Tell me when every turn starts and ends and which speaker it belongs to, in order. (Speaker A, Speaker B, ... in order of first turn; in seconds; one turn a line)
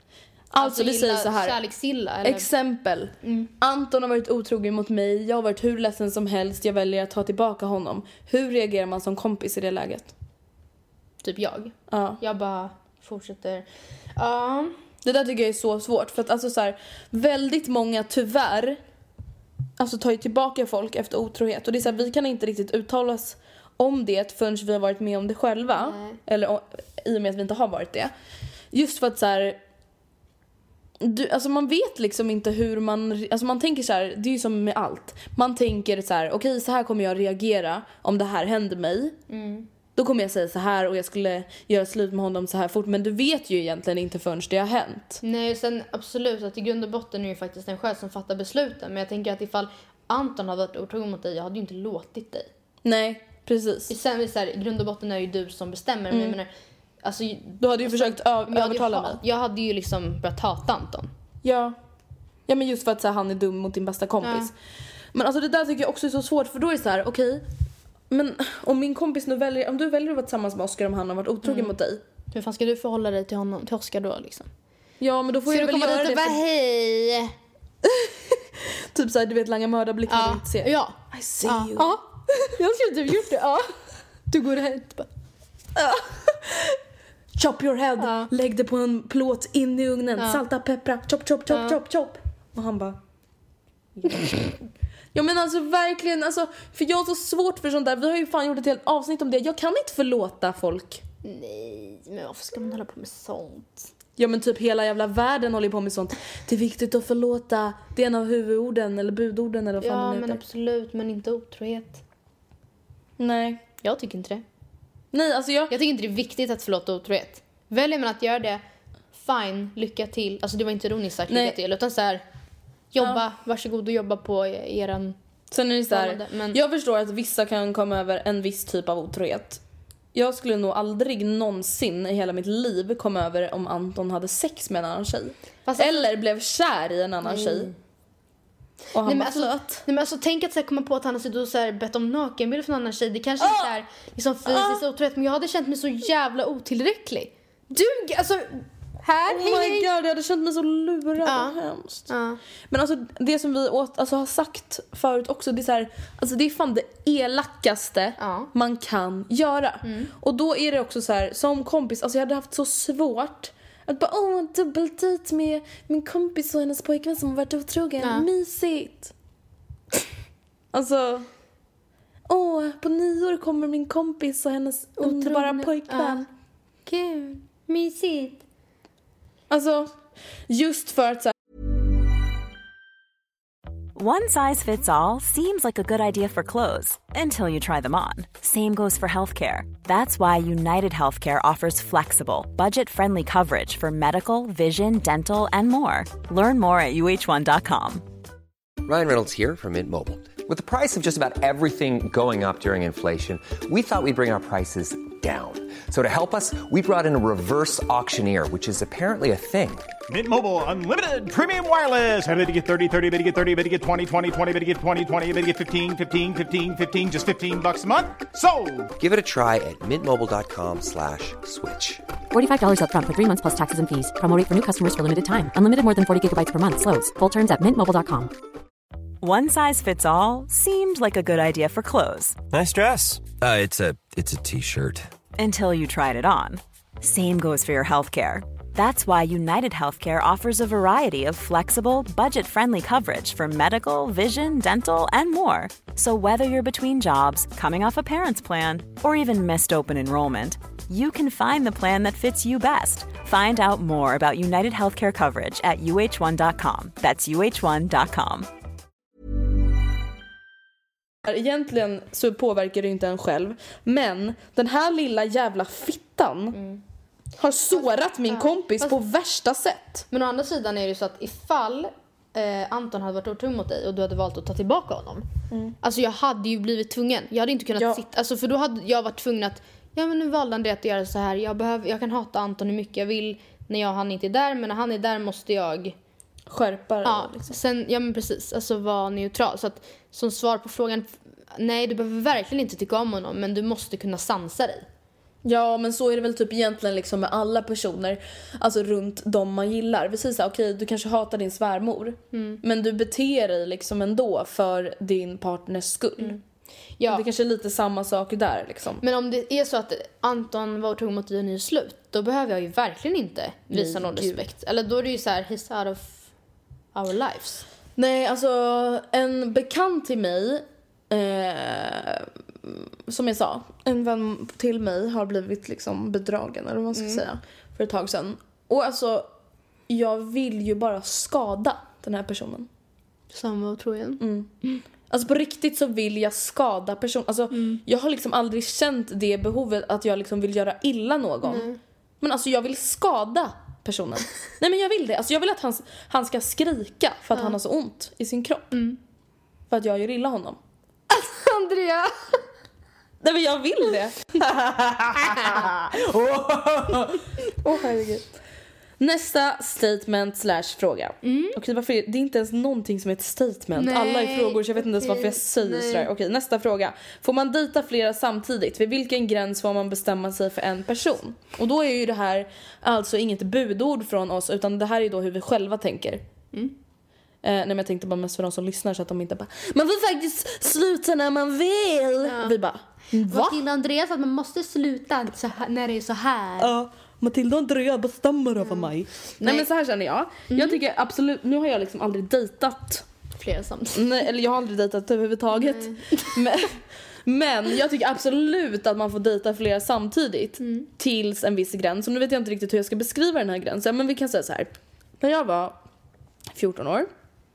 Speaker A: 0.5-1.6
Speaker B: 0.6-2.5
Speaker A: 2.2-10.1
Speaker B: 3.2-3.5
Speaker B: 11.2-14.8
Speaker A: 11.9-12.2
Speaker A: 15.0-18.8
Speaker A: 19.8-28.1
Speaker B: 25.8-26.2
Speaker A: 28.7-29.6
Speaker A: 31.0-39.2
Speaker B: 39.3-39.7
Speaker A: 40.0-45.2
Speaker B: 45.2-52.5
Speaker A: 52.8-53.9
Speaker B: 53.9-56.5
Speaker A: 56.1-56.4
Speaker B: 57.0-61.1
Speaker A: 57.6-59.2
Speaker A: 61.4-61.7
Speaker A: 62.5-64.5
Speaker B: 64.2-64.5
Speaker A: 65.1-67.5
Speaker A: 68.1-72.0
Speaker B: 71.4-71.7
Speaker B: 72.3-74.5
Speaker A: 75.0-76.4
Speaker B: 75.5-77.3
Speaker A: 77.9-78.1
Speaker A: 78.9-81.9
Speaker B: 80.1-83.7
Speaker B: 84.3-85.1
Speaker A: 85.7-86.8
Speaker A: 87.3-93.0
Speaker B: 88.0-88.3
Speaker B: 91.5-91.8
Speaker B: 94.0-94.5
Speaker A: 95.1-101.0
Speaker B: 101.2-103.9
Speaker A: 104.2-110.4
Speaker B: 109.8-112.0
Speaker A: 113.2-113.6
Speaker B: 113.8-114.4
Speaker A: 115.1-115.7
Speaker B: 115.7-118.6
Speaker B: 119.1-122.2
Speaker A: 121.3-121.6
Speaker B: 122.9-125.2
Speaker A: 125.5-129.6
Speaker B: 125.9-126.6
Speaker A: 130.1-137.7
Speaker B: 135.7-136.1
Speaker B: 137.2-137.7
Speaker A: 138.9-139.8
Speaker B: 139.0-149.9
Speaker A: 143.4-143.7
Speaker A: 144.4-144.8
Speaker A: 149.3-152.1
Speaker B: 151.2-152.4
Speaker A: 152.7-169.1
Speaker B: 158.2-158.5
Speaker B: 159.8-160.1
Speaker B: 168.0-168.2
Speaker A: 170.7-171.3
Speaker A: 172.3-176.2
Speaker B: 175.0-176.2
Speaker B: 176.8-178.4
Speaker A: 179.5-179.9
Speaker A: 180.5-181.3
Speaker C: 183.9-198.0
Speaker D: 198.8-209.9
Speaker E: 210.1-218.9
Speaker D: 219.0-222.0
Speaker F: 222.3-228.3
Speaker C: 229.2-232.4
Speaker G: 232.5-235.1
Speaker C: 235.4-258.5
Speaker A: 261.2-266.6
Speaker B: 266.5-266.8
Speaker A: 267.4-270.1
Speaker B: 267.7-268.9
Speaker B: 270.1-275.3
Speaker A: 275.5-275.8
Speaker B: 275.8-285.9
Speaker A: 286.5-287.5
Speaker B: 287.0-294.9
Speaker A: 295.4-306.4
Speaker B: 302.3-302.6
Speaker B: 307.0-307.2
Speaker A: 307.1-309.0
Speaker B: 309.0-316.3
Speaker A: 313.7-314.4
Speaker B: 316.9-317.6
Speaker A: 317.9-329.3
Speaker B: 326.9-327.2
Speaker A: 329.9-332.7
Speaker B: 333.3-334.8
Speaker A: 334.2-334.5
Speaker A: 335.1-341.7
Speaker B: 337.5-337.8
Speaker B: 341.4-341.8
Speaker A: 342.2-348.7
Speaker B: 348.7-349.0
Speaker A: 349.7-350.6
Speaker B: 351.1-352.4
Speaker A: 353.2-358.2
Speaker B: 355.2-355.8
Speaker A: 359.0-376.2
Speaker B: 361.2-361.5
Speaker B: 363.8-366.1
Speaker A: 377.4-383.6
Speaker B: 382.2-382.5
Speaker B: 383.3-386.7
Speaker A: 386.6-393.0
Speaker B: 388.6-388.9
Speaker B: 389.4-389.6
Speaker B: 390.5-390.8
Speaker B: 393.4-394.2
Speaker A: 393.9-405.8
Speaker B: 395.5-396.4
Speaker B: 400.6-400.9
Speaker A: 406.5-407.1